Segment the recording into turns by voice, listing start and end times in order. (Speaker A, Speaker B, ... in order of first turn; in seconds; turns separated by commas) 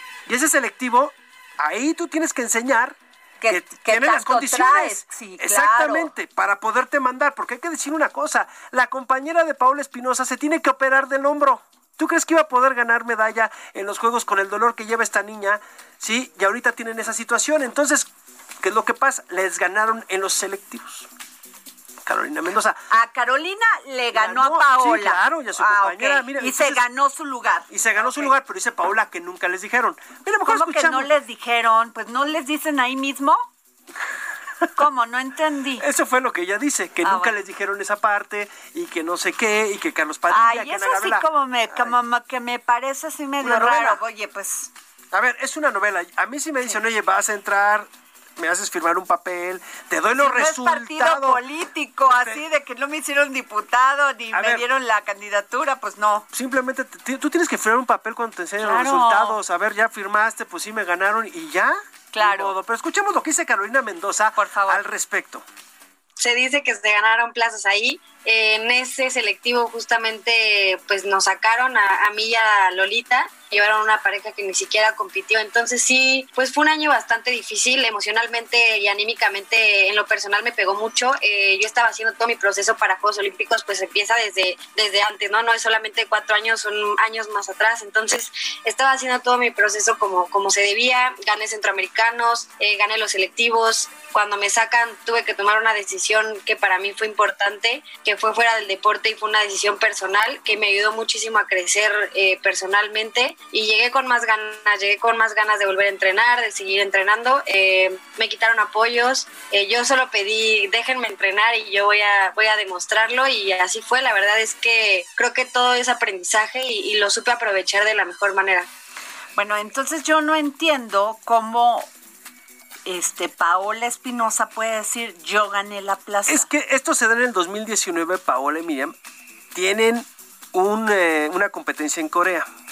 Speaker A: 0.3-3.0, Speaker B: 3.4-6.1, Speaker A: 3.5-18.1, Speaker A: 18.6-21.1, Speaker A: 22.1-22.9, Speaker B: 22.9-28.3, Speaker A: 24.1-26.8, Speaker A: 27.7-31.1, Speaker B: 30.4-33.5, Speaker B: 34.8-35.9, Speaker A: 35.8-41.9, Speaker B: 37.0-37.3, Speaker B: 40.3-44.7, Speaker A: 43.4-44.0, Speaker A: 45.1-51.4, Speaker B: 50.1-56.3, Speaker A: 52.1-52.4, Speaker A: 54.3-54.6, Speaker A: 56.3-65.4, Speaker B: 58.6-59.4, Speaker B: 62.1-62.5, Speaker B: 64.4-64.8, Speaker C: 66.2-118.7, Speaker B: 119.4-121.9, Speaker B: 122.9-126.5, Speaker A: 126.3-128.9, Speaker A: 129.5-132.5